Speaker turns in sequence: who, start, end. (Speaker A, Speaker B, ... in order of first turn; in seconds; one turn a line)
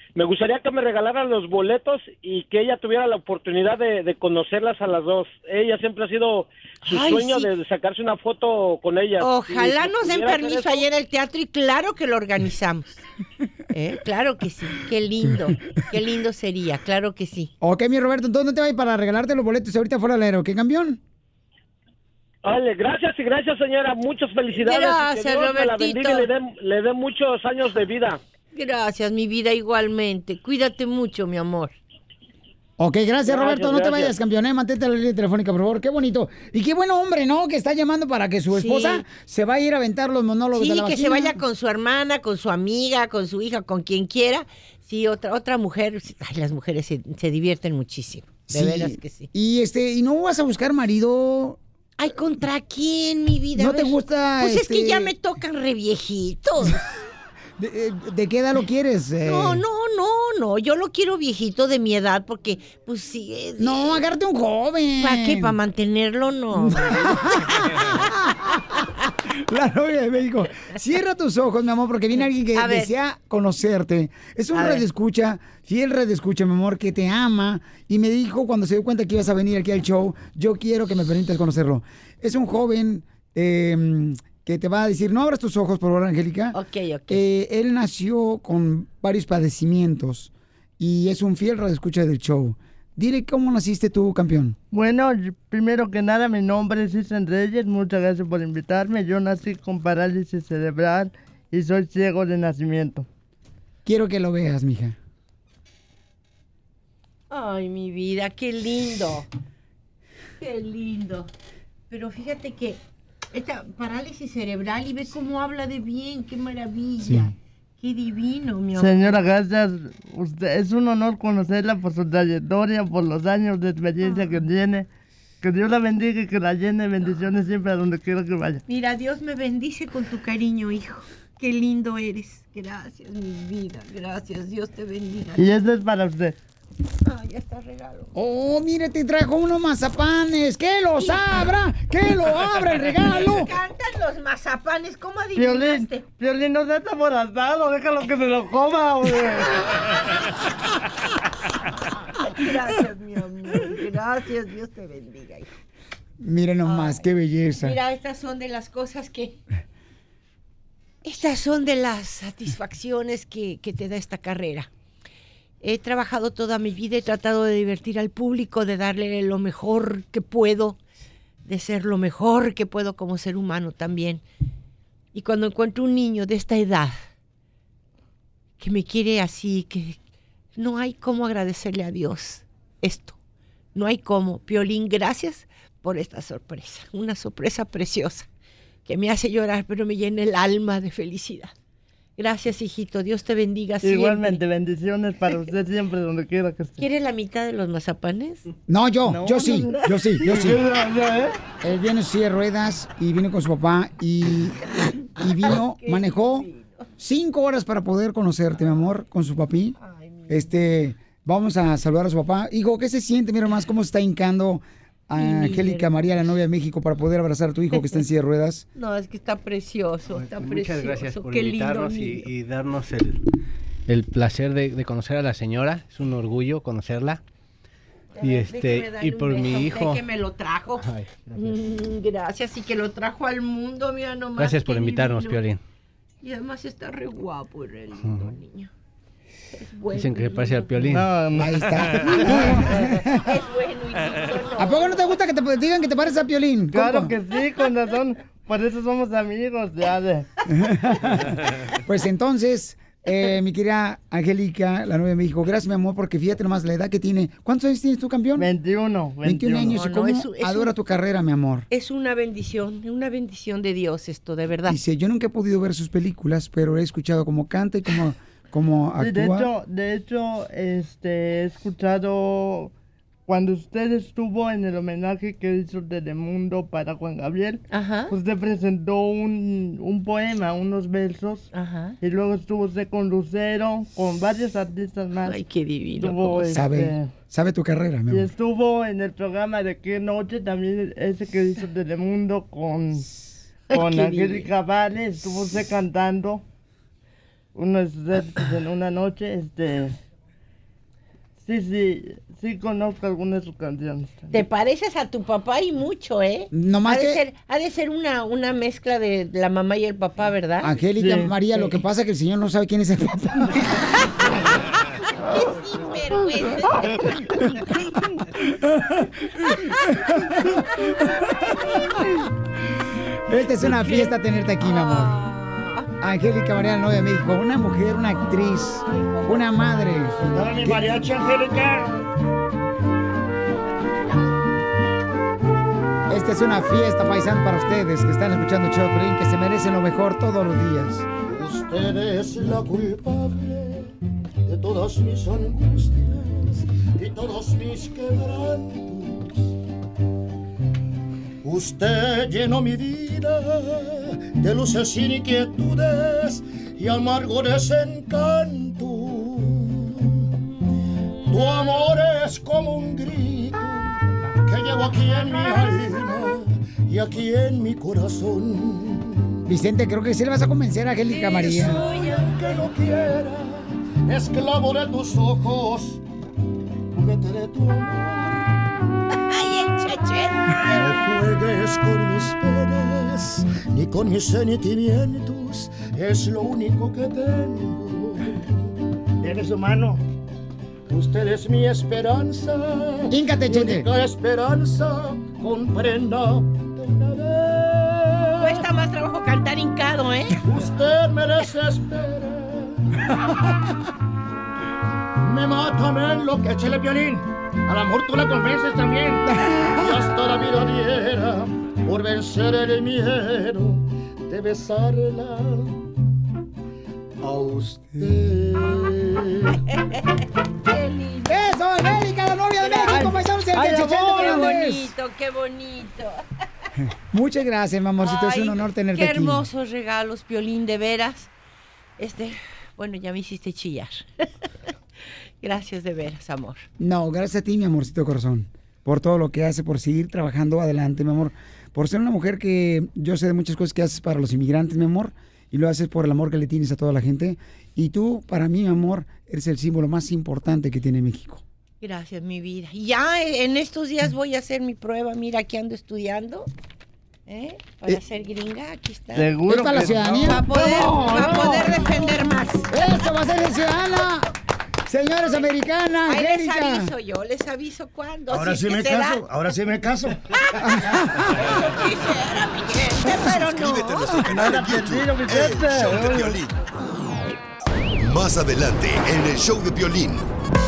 Speaker A: 0.1-10.8
Speaker B: 6.8-7.5
Speaker B: 9.2-13.0
Speaker B: 13.7-17.5
Speaker C: 17.6-21.0
Speaker A: 22.4-28.2
Speaker B: 24.5-26.3
Speaker B: 28.5-31.7
Speaker C: 32.8-41.4
Speaker A: 33.3-34.1
Speaker B: 38.5-39.0
Speaker B: 40.5-49.3
Speaker C: 48.5-51.6
Speaker B: 52.0-56.8
Speaker C: 53.5-55.1
Speaker C: 57.6-59.6
Speaker B: 59.2-64.0
Speaker C: 63.6-65.6
Speaker B: 65.0-67.9
Speaker C: 66.5-68.6
Speaker C: 69.3-86.6
Speaker B: 72.5-72.9
Speaker B: 74.5-74.8
Speaker B: 86.5-87.2
Speaker C: 87.1-94.5
Speaker D: 94.7-103.0
Speaker C: 103.8-105.0
Speaker B: 107.3-109.3
Speaker B: 110.4-111.3
Speaker B: 111.9-112.8
Speaker B: 113.3-119.2
Speaker C: 117.0-117.3
Speaker D: 118.7-124.9
Speaker B: 124.0-124.4
Speaker D: 125.4-128.6
Speaker B: 128.7-135.5
Speaker D: 135.4-136.3
Speaker B: 137.0-138.1
Speaker C: 138.1-143.5
Speaker B: 141.0-141.4
Speaker B: 142.9-146.1
Speaker D: 145.3-149.5
Speaker B: 149.5-149.9
Speaker B: 152.1-155.5
Speaker C: 156.2-157.8
Speaker B: 156.6-159.4
Speaker B: 161.0-164.7
Speaker B: 165.6-170.8
Speaker B: 171.4-174.2
Speaker B: 175.1-177.0
Speaker B: 178.6-180.0
Speaker B: 180.6-183.2
Speaker B: 183.7-188.3
Speaker B: 188.8-191.5
Speaker B: 192.2-194.4
Speaker D: 193.8-196.8
Speaker B: 196.8-198.4
Speaker C: 198.7-200.6
Speaker D: 199.0-201.4
Speaker C: 201.6-206.5
Speaker B: 205.3-206.8
Speaker C: 207.0-209.8
Speaker B: 209.8-210.5
Speaker C: 210.3-218.7
Speaker B: 215.2-216.3
Speaker B: 218.7-222.3
Speaker E: 220.1-223.2
Speaker E: 223.9-227.2
Speaker B: 228.1-235.4
Speaker E: 228.2-230.0
Speaker E: 230.9-231.4
Speaker E: 234.4-235.6
Speaker B: 236.2-238.7
Speaker B: 239.5-241.0
Speaker E: 239.9-241.0
Speaker D: 240.9-241.6
Speaker C: 241.3-243.4
Speaker B: 242.2-245.1
Speaker C: 244.6-247.1
Speaker D: 246.7-250.2
Speaker C: 250.5-258.5
Speaker D: 258.4-259.8
Speaker C: 259.2-261.7
Speaker B: 259.7-260.7
Speaker B: 261.7-264.8
Speaker C: 264.7-269.5
Speaker D: 269.0-272.7
Speaker D: 273.3-281.5
Speaker B: 277.7-278.1
Speaker B: 281.5-282.0
Speaker D: 282.0-285.4
Speaker B: 285.2-286.5
Speaker D: 286.0-287.1
Speaker C: 286.5-288.2
Speaker D: 288.1-293.1
Speaker B: 293.7-294.5
Speaker D: 293.7-296.4
Speaker D: 297.5-299.9
Speaker D: 301.4-304.4
Speaker B: 304.3-310.7
Speaker C: 306.5-307.2
Speaker C: 310.6-313.7
Speaker D: 310.9-311.8
Speaker B: 315.2-317.6
Speaker C: 323.3-325.2
Speaker B: 323.6-325.9
Speaker C: 326.0-331.0
Speaker B: 328.5-329.5
Speaker F: 330.2-331.9
Speaker C: 336.1-341.1
Speaker F: 341.2-343.9
Speaker F: 344.4-349.5
Speaker F: 351.4-360.3
Speaker F: 361.3-369.4
Speaker C: 369.4-371.8
Speaker B: 371.1-372.6
Speaker F: 371.8-376.0
Speaker F: 376.9-378.5
Speaker B: 379.3-381.0
Speaker F: 380.7-388.7
Speaker F: 389.2-390.0
Speaker F: 390.9-398.6
Speaker C: 393.1-393.9
Speaker B: 398.4-400.5
Speaker F: 400.4-402.8
Speaker F: 405.2-415.8
Speaker F: 417.2-419.4
Speaker B: 419.7-420.0
Speaker B: 420.6-421.4
Speaker C: 421.3-424.9
Speaker B: 422.6-423.0
Speaker D: 422.9-424.6
Speaker B: 423.9-426.2
Speaker C: 427.1-429.5
Speaker B: 428.0-431.3
Speaker B: 432.0-434.1
Speaker B: 435.4-436.7
Speaker C: 436.8-451.4
Speaker B: 451.8-456.5
Speaker B: 457.3-462.8
Speaker D: 459.1-462.1
Speaker C: 459.4-460.5
Speaker C: 462.7-464.3
Speaker C: 464.9-466.9
Speaker B: 466.1-469.3
Speaker F: 468.3-470.2
Speaker B: 470.3-474.1
Speaker C: 470.7-471.2
Speaker G: 473.2-476.6
Speaker D: 474.3-476.4
Speaker G: 478.0-480.3